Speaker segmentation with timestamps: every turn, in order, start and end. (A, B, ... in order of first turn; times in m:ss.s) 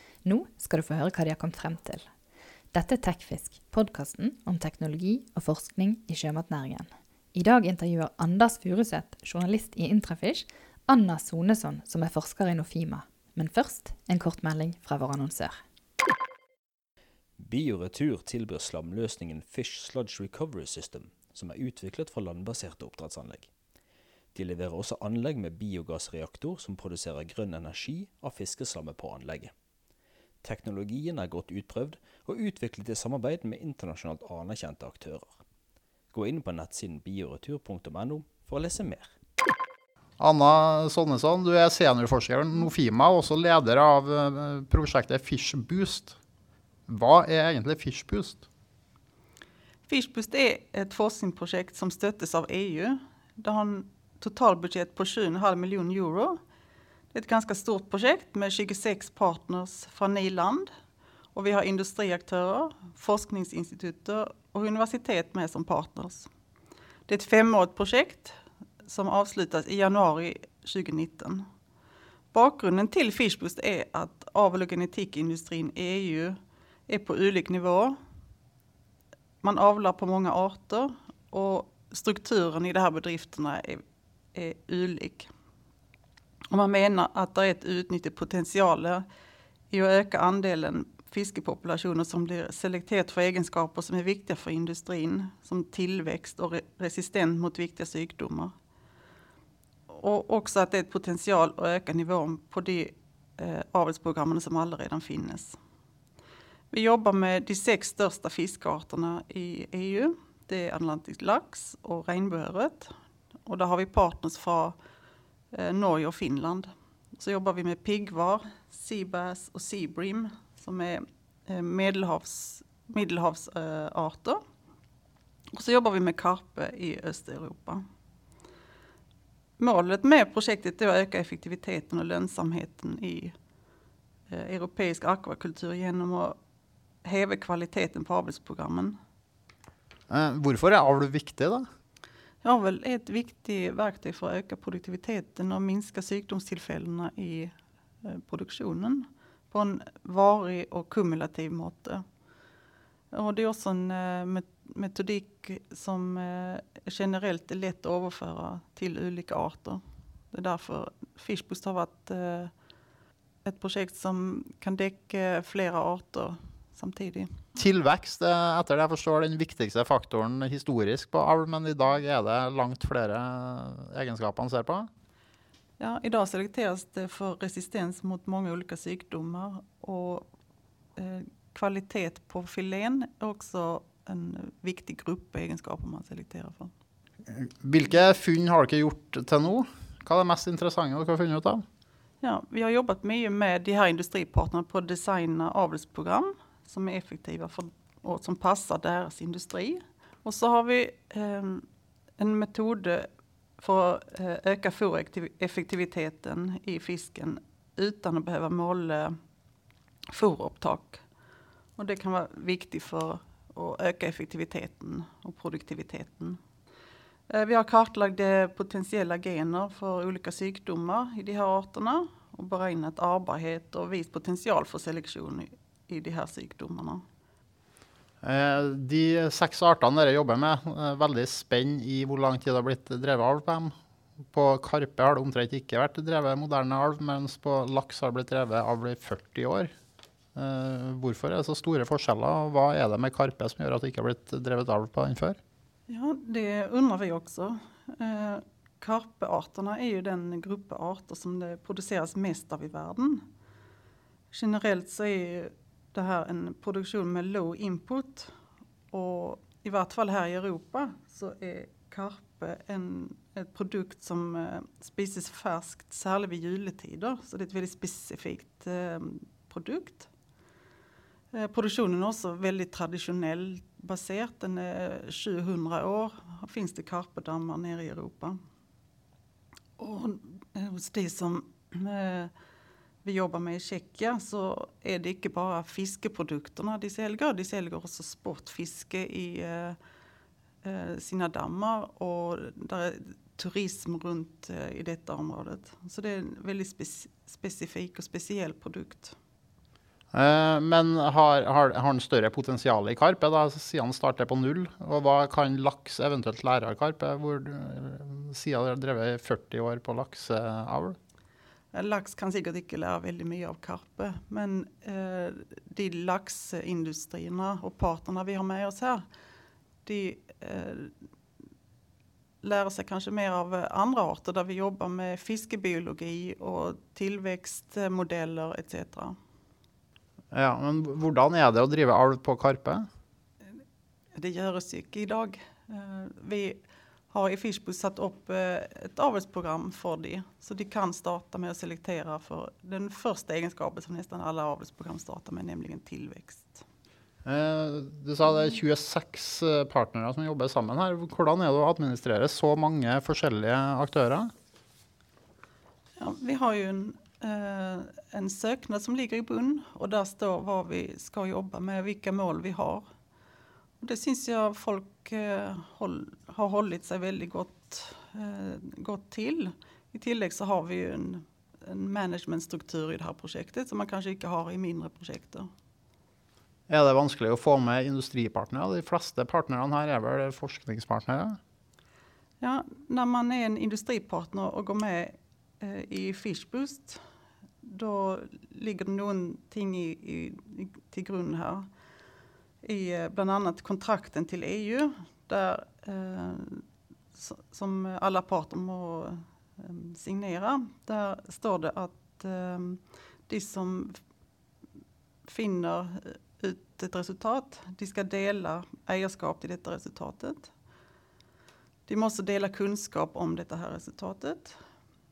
0:00.2-0:02.0 A
0:02.7-0:15.6 A
0:17.4-0:23.5 B
0:24.3-0:29.5 B
0:30.4-0:35.4 B
0:36.1-0:39.1 B
0:40.2-0:46.2 C
0:46.9-0:48.4 C
0:49.9-0:56.4 D
0:57.1-1:00.7 D
1:01.3-1:06.3 D
1:07.1-1:11.4 D
1:12.3-1:16.4 D
1:16.9-1:18.0 D
1:19.4-1:23.8 D
1:24.3-1:25.3 D
1:26.5-1:29.0 D
1:29.7-1:38.5 D
1:39.9-1:45.6 D
1:46.7-1:52.9 D
1:53.5-1:54.8 D
1:55.5-2:04.4 D
2:05.6-2:07.8 D
2:09.6-2:13.3 D
2:14.3-2:16.4 D
2:17.0-2:19.0 D
2:20.1-2:21.7 C
2:22.4-2:27.5 D
2:28.0-2:32.0 D
2:33.1-2:39.8 D
2:40.3-2:42.5 D
2:43.4-2:47.3 D
2:47.6-2:54.9 C
2:55.8-3:00.3 D
3:01.0-3:06.7 D
3:07.3-3:11.6 C
3:12.2-3:21.7 D
3:22.2-3:23.1 D
3:23.6-3:29.2 D
3:30.1-3:31.0 D
3:31.8-3:36.4 D
3:37.3-3:47.0 D
3:48.2-3:53.7 C
3:54.3-3:59.7 C
4:00.4-4:05.4 C
4:05.9-4:13.2 D
4:14.3-4:18.3 D
4:18.9-4:30.1 D
4:31.3-4:38.4 D
4:39.8-4:42.3 D
4:43.0-4:49.8 D
4:50.6-4:59.2 D
5:00.1-5:11.0 C
5:11.7-5:19.0 D
5:19.8-5:20.9 D
5:22.4-5:29.2 D
5:30.3-5:32.9 C
5:34.2-5:36.6 D
5:37.1-5:46.6 D
5:47.2-5:54.3 C
5:56.0-6:02.8 D
6:03.8-6:15.5 D
6:16.7-6:21.4 C
6:22.4-6:27.0 D
6:27.6-6:31.7 D
6:32.6-6:44.0 D
6:45.3-6:50.5 D
6:51.9-6:54.6 D